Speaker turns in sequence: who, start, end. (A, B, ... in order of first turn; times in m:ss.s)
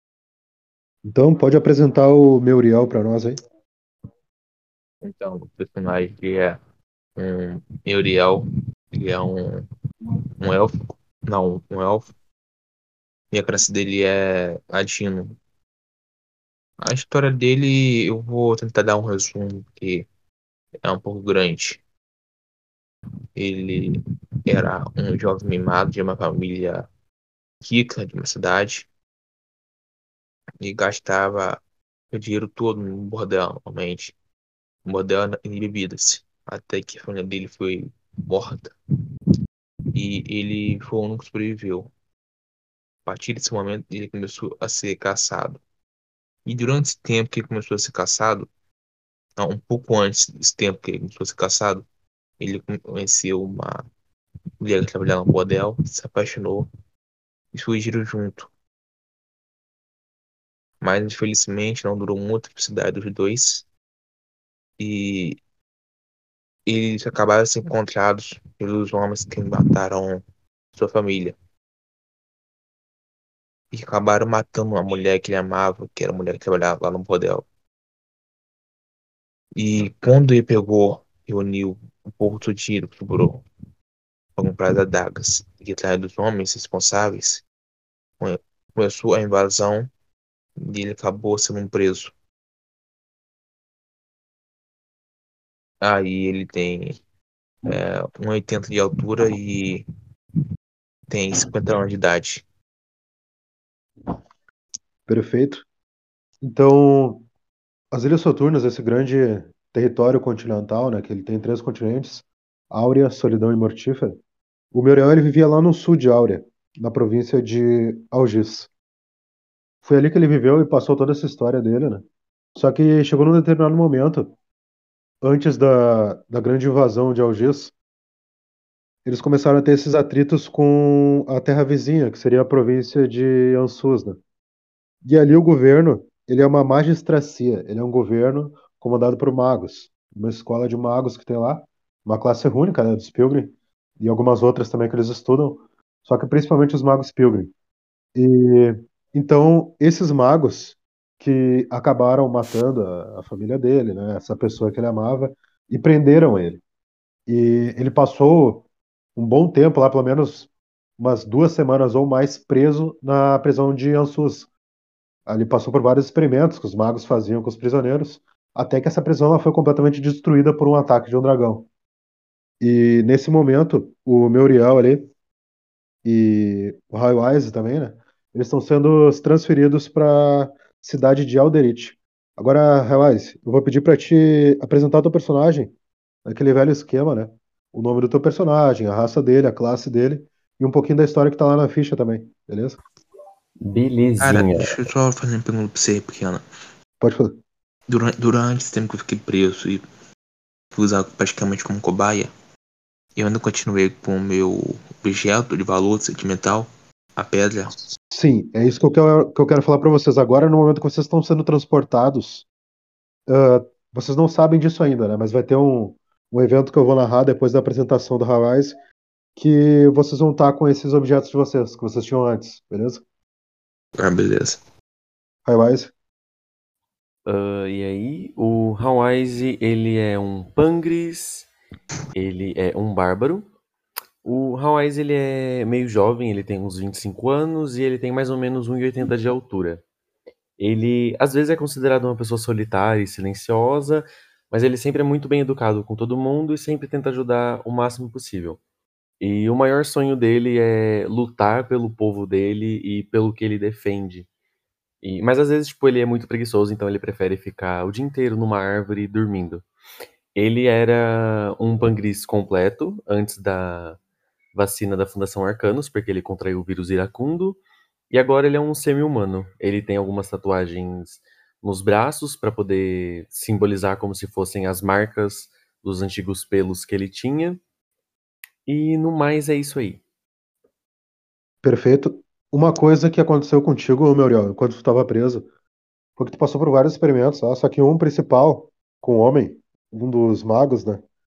0:01.0-0:03.4 A
0:05.0-0:06.6 B
0:07.2-0:09.6 B
0:10.4-0:10.7 B
0:11.3-0:12.1 B
0:13.3-0:15.4 B
0:16.8-0:20.1 B
0:20.8-0:21.8 B
0:23.4-0:26.9 B
0:27.6-0:28.9 B
0:30.6-0:31.6 B
0:32.1-0:34.2 B
0:34.9-0:38.7 B
0:40.0-0:41.9 B
0:43.1-0:45.6 B
0:46.4-0:48.5 B
0:49.4-0:51.8 B
0:52.4-0:53.8 B
0:54.6-0:56.7 B
0:57.5-0:58.5 B
1:00.8-1:03.7 B
1:04.8-1:05.4 B
1:06.7-1:10.2 B
1:10.8-1:11.4 B
1:13.7-1:17.5 B
1:19.6-1:23.4 B
1:24.4-1:27.4 B
1:28.2-1:29.9 B
1:30.7-1:32.1 B
1:35.8-1:37.0 B
1:37.7-1:39.8 B
1:41.1-1:42.4 B
1:45.1-1:45.6 A
1:46.4-1:47.3 A
1:47.9-1:54.2 A
1:54.7-1:58.7 A
1:59.8-2:02.0 A
2:02.6-2:04.3 A
2:05.2-2:07.7 A
2:09.0-2:14.2 A
2:15.0-2:27.5 A
2:28.2-2:36.6 A
2:37.3-2:38.6 A
2:39.2-2:44.5 A
2:45.3-2:51.7 A
2:52.6-2:55.1 A
2:56.0-3:05.7 A
3:06.2-3:12.8 A
3:13.6-3:14.8 C
3:14.2-3:16.4 B
3:17.0-3:17.3 A
3:17.9-3:19.8 B
3:20.8-3:22.3 B
3:23.2-3:27.8 B
3:28.1-3:32.5 A
3:33.3-3:38.7 A
3:39.4-3:43.0 A
3:44.0-3:44.6 B
3:45.5-3:45.9 A
3:47.3-3:51.5 C
3:52.2-3:53.5 C
3:54.2-3:59.8 C
4:00.6-4:08.6 C
4:09.2-4:14.3 C
4:15.0-4:19.6 C
4:20.4-4:24.0 C
4:24.5-4:27.6 C
4:28.1-4:37.6 C
4:38.7-4:40.0 C
4:41.6-4:45.4 A
4:46.2-4:51.0 A